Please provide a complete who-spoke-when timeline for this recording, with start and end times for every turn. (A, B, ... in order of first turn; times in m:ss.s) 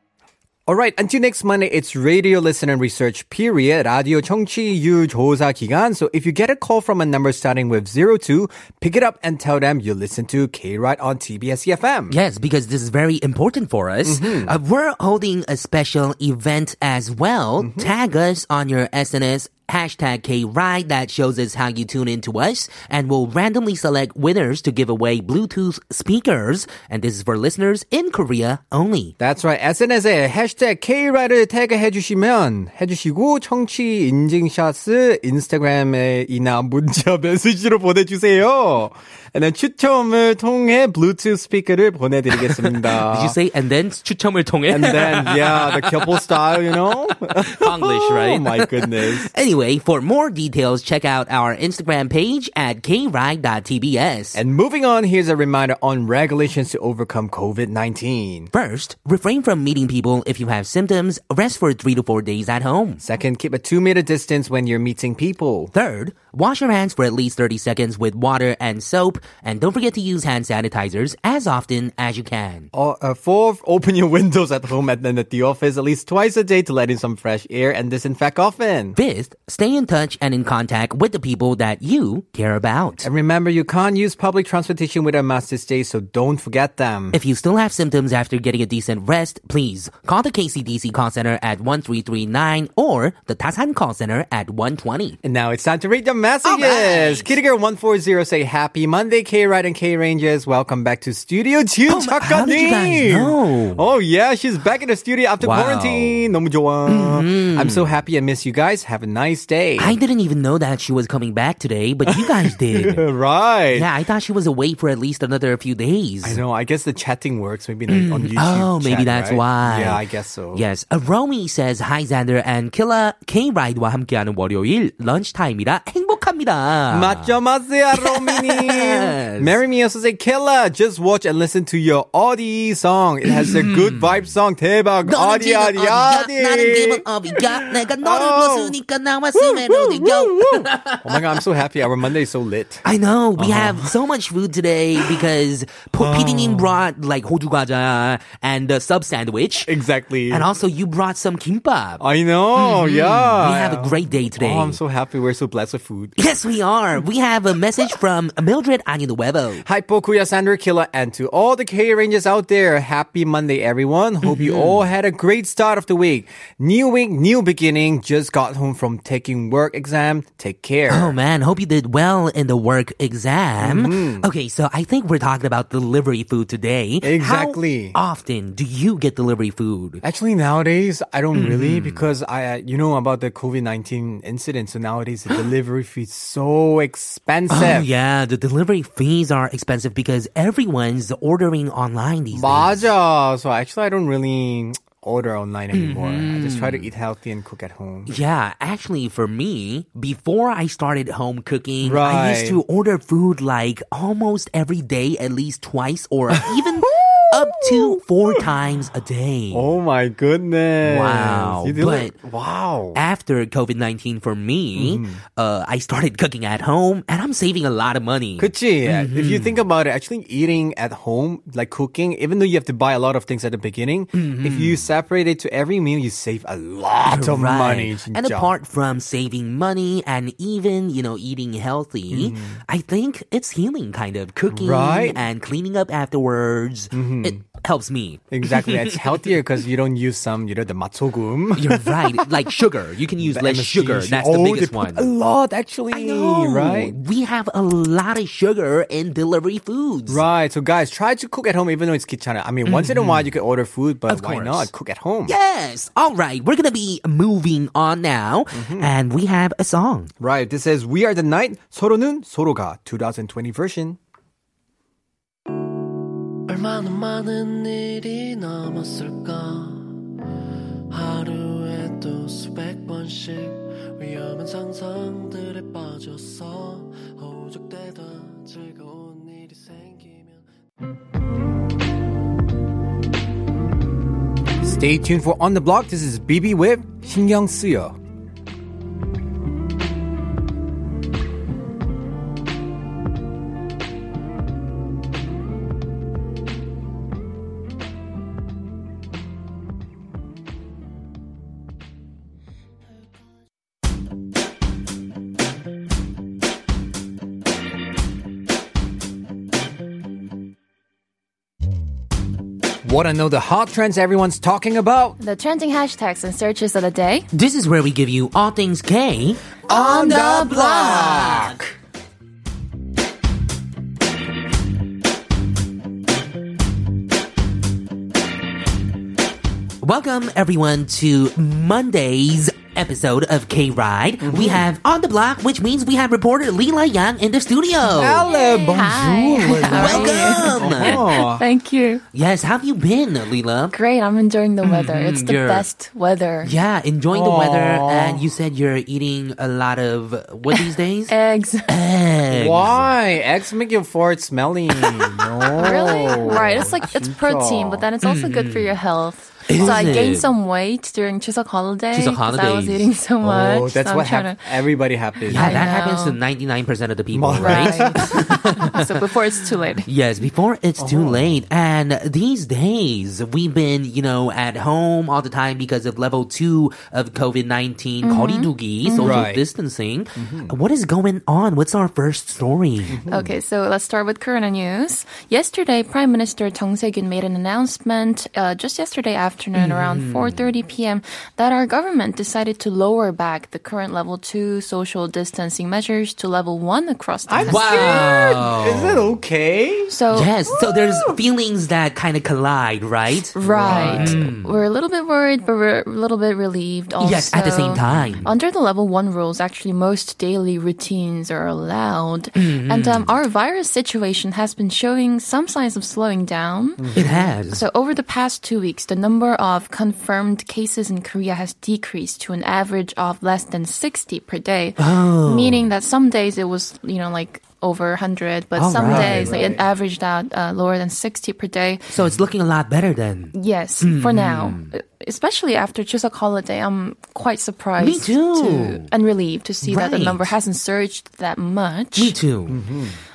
0:00.7-0:12.2 A
0:12.1-0:29.1 B
0:14.0-0:14.5 A
0:17.6-0:17.9 A
0:29.2-0:43.4 A
0:42.3-0:54.4 B
0:44.7-0:49.3 A
0:54.3-0:58.5 A
0:58.5-1:03.0 B
1:03.0-1:05.7 A
1:05.7-1:12.7 B
1:12.7-1:19.0 A
1:19.0-1:23.1 B
1:23.0-1:27.2 A
1:27.1-1:35.2 B
1:35.2-1:50.0 A
1:36.4-1:37.3 B
1:41.9-1:43.8 B
1:45.4-1:46.2 B
1:46.9-1:47.9 B
1:49.8-1:53.0 B
1:52.1-1:53.9 A
1:53.7-1:56.4 B
1:56.2-2:00.6 A
1:57.9-2:00.0 B
2:00.5-2:07.3 B
2:06.9-2:18.8 A
2:07.9-2:09.6 B
2:13.3-2:14.2 B
2:15.0-2:21.4 B
2:19.3-2:22.8 A
2:22.8-2:29.7 B
2:23.4-2:24.0 A
2:26.0-2:26.8 A
2:29.6-2:30.5 A
2:30.3-2:32.0 B
2:32.0-2:36.2 A
2:32.6-2:34.8 B
2:36.2-2:39.6 B
2:39.6-2:51.1 A
2:44.2-2:44.8 B
2:50.9-3:00.0 B
2:53.6-2:54.3 A
2:57.0-2:58.0 A
3:00.0-3:07.9 A
3:01.3-3:02.0 B
3:07.5-3:12.8 B
3:12.3-3:18.1 A
3:15.7-3:16.9 B
3:18.1-3:29.7 B
3:21.8-3:22.6 A
3:26.3-3:28.5 A
3:29.5-3:33.0 A
3:30.8-3:32.1 B
3:32.9-3:39.6 B
3:34.8-3:35.2 A
3:38.4-3:48.5 A
3:44.1-3:44.8 B
3:47.1-3:59.2 B
3:52.1-3:52.6 A
3:54.5-3:55.2 A
3:56.9-3:57.4 A
3:58.3-4:02.5 A
4:01.6-4:05.1 B
4:03.2-4:07.0 A
4:05.9-4:10.2 B
4:10.1-4:15.3 A
4:12.6-4:13.3 B
4:14.1-4:14.7 B
4:15.2-4:20.1 B
4:18.5-4:18.9 A
4:20.2-4:24.0 A
4:26.5-4:30.1 C
4:30.9-4:40.5 C
4:44.6-4:48.0 A
5:12.8-5:15.2 A
5:15.2-5:17.3 D
5:17.3-5:19.6 B
5:19.7-5:21.7 A
5:19.7-5:21.4 D
5:20.2-5:21.6 B
5:29.8-5:38.3 B
5:34.2-5:34.7 A
5:37.8-5:41.4 A
5:38.2-5:42.0 D
5:39.6-5:41.0 B
5:42.1-5:43.7 B
5:43.7-5:46.5 D
5:44.6-5:45.6 B
5:46.4-5:51.1 B
5:47.1-5:48.3 A
5:50.5-5:51.7 D
5:51.7-5:52.9 B
5:52.3-5:57.8 A
5:55.6-6:04.5 D
5:58.0-5:58.8 B
5:59.5-6:00.3 B
5:59.5-6:00.0 A
6:01.9-6:02.9 B
6:03.2-6:05.7 A
6:05.3-6:08.9 B
6:05.3-6:06.2 D
6:07.1-6:08.8 A
6:07.4-6:09.9 D
6:09.9-6:23.0 B
6:10.8-6:11.4 A
6:18.0-6:19.2 D
6:19.0-6:19.4 A
6:20.2-6:20.5 A
6:22.9-6:23.3 A
6:23.1-6:38.1 D
6:29.5-6:30.4 B
6:37.3-6:39.9 A
6:37.4-6:39.1 B
6:39.9-6:40.3 D
6:40.1-6:44.6 B
6:40.5-6:41.2 A
6:43.3-6:57.0 D
6:43.4-6:44.3 A
6:47.0-6:48.3 B
6:47.9-6:48.2 A
6:52.4-6:53.1 B
6:56.8-6:57.3 A
6:57.0-6:57.6 B
6:57.5-7:11.9 D
7:04.8-7:05.7 B
7:08.6-7:09.4 B
7:08.8-7:09.6 A
7:11.9-7:14.7 B
7:13.3-7:22.2 D
7:17.8-7:18.9 B
7:19.6-7:20.3 B
7:22.0-7:22.6 B
7:22.5-7:23.0 A